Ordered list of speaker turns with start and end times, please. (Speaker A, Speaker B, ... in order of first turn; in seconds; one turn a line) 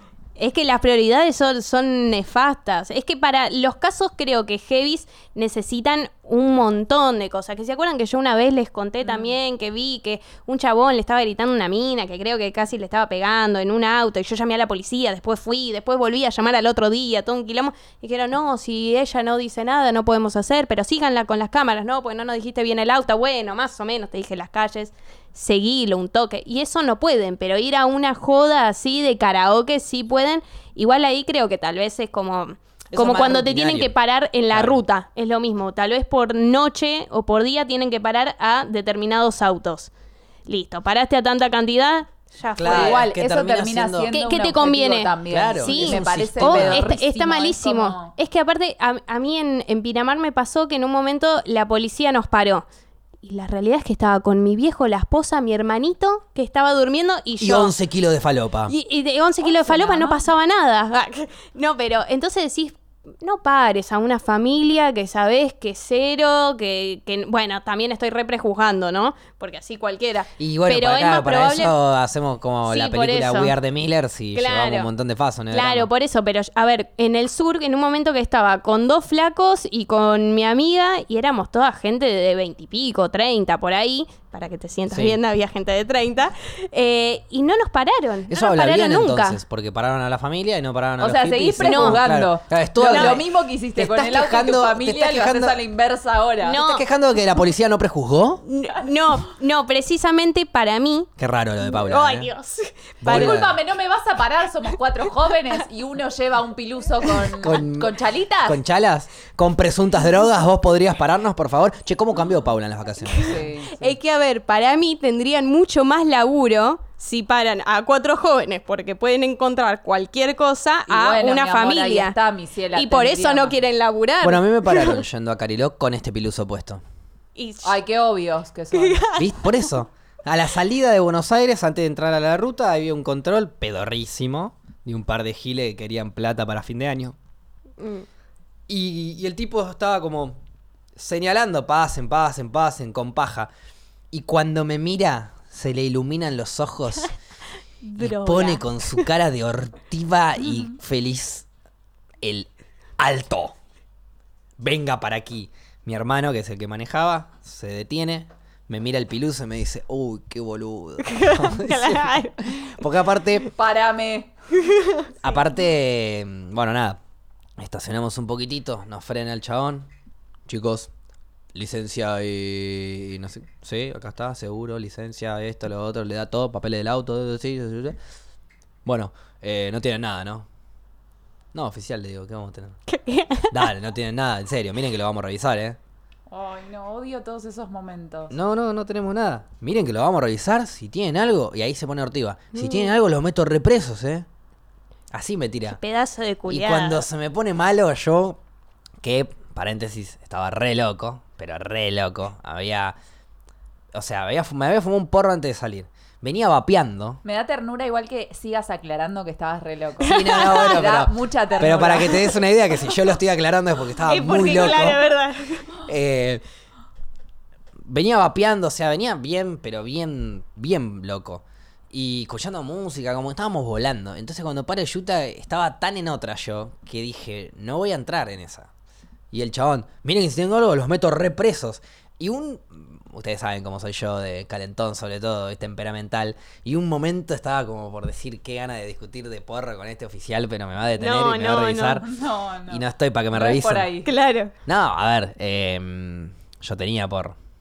Speaker A: 0.4-39.9
Speaker B: 9.0-9.3
Speaker C: 32.9-33.9
Speaker C: 34.5-34.8
Speaker A: 40.5-43.1
Speaker C: 42.5-44.1
Speaker B: 42.6-48.1
Speaker A: 44.1-52.6
Speaker C: 45.3-46.9
Speaker A: 53.2-57.7
Speaker C: 57.4-58.7
Speaker A: 58.7-71.7
Speaker B: 59.4-60.2
Speaker C: 70.4-75.9
Speaker A: 72.7-73.5
Speaker A: 74.3-74.9
Speaker A: 75.5-89.4
Speaker C: 84.9-85.2
Speaker C: 88.3-95.6
Speaker B: 91.0-96.6
Speaker A: 91.6-92.0
Speaker A: 92.9-93.2
Speaker A: 96.4-96.8
Speaker C: 96.6-98.4
Speaker A: 98.4-101.1
Speaker C: 101.2-102.3
Speaker A: 101.6-103.4
Speaker C: 103.0-103.6
Speaker B: 103.0-108.6
Speaker C: 107.4-113.4
Speaker B: 113.2-113.9
Speaker A: 113.7-122.2
Speaker B: 120.9-123.6
Speaker A: 122.7-125.0
Speaker C: 124.2-126.8
Speaker A: 127.3-127.8
Speaker B: 127.6-129.1
Speaker A: 128.7-129.7
Speaker C: 129.1-137.1
Speaker A: 137.8-138.1
Speaker C: 138.7-140.4
Speaker C: 141.0-143.5
Speaker C: 144.1-147.1
Speaker A: 147.8-149.0
Speaker C: 148.0-151.4
Speaker C: 152.2-153.5
Speaker C: 154.6-163.5
Speaker A: 161.0-162.7
Speaker B: 163.6-164.3
Speaker A: 164.6-165.1
Speaker C: 165.2-167.0
Speaker C: 167.6-169.9
Speaker C: 170.5-170.9
Speaker C: 171.5-178.0
Speaker C: 178.8-180.4
Speaker C: 181.5-182.8
Speaker A: 182.9-183.7
Speaker C: 183.5-185.8
Speaker B: 186.3-188.3
Speaker C: 188.3-194.2
Speaker A: 192.5-192.9
Speaker C: 195.1-195.8
Speaker A: 195.7-197.0
Speaker C: 196.5-198.4
Speaker C: 199.0-202.9
Speaker C: 203.9-207.2
Speaker B: 207.2-212.4
Speaker C: 210.0-215.0
Speaker A: 210.0-210.6
Speaker A: 214.1-215.7
Speaker C: 215.8-216.4
Speaker C: 217.8-228.7
Speaker C: 229.3-242.0
Speaker A: 241.0-242.0
Speaker B: 242.0-244.1
Speaker C: 242.7-243.9
Speaker A: 244.0-244.5
Speaker C: 244.7-247.3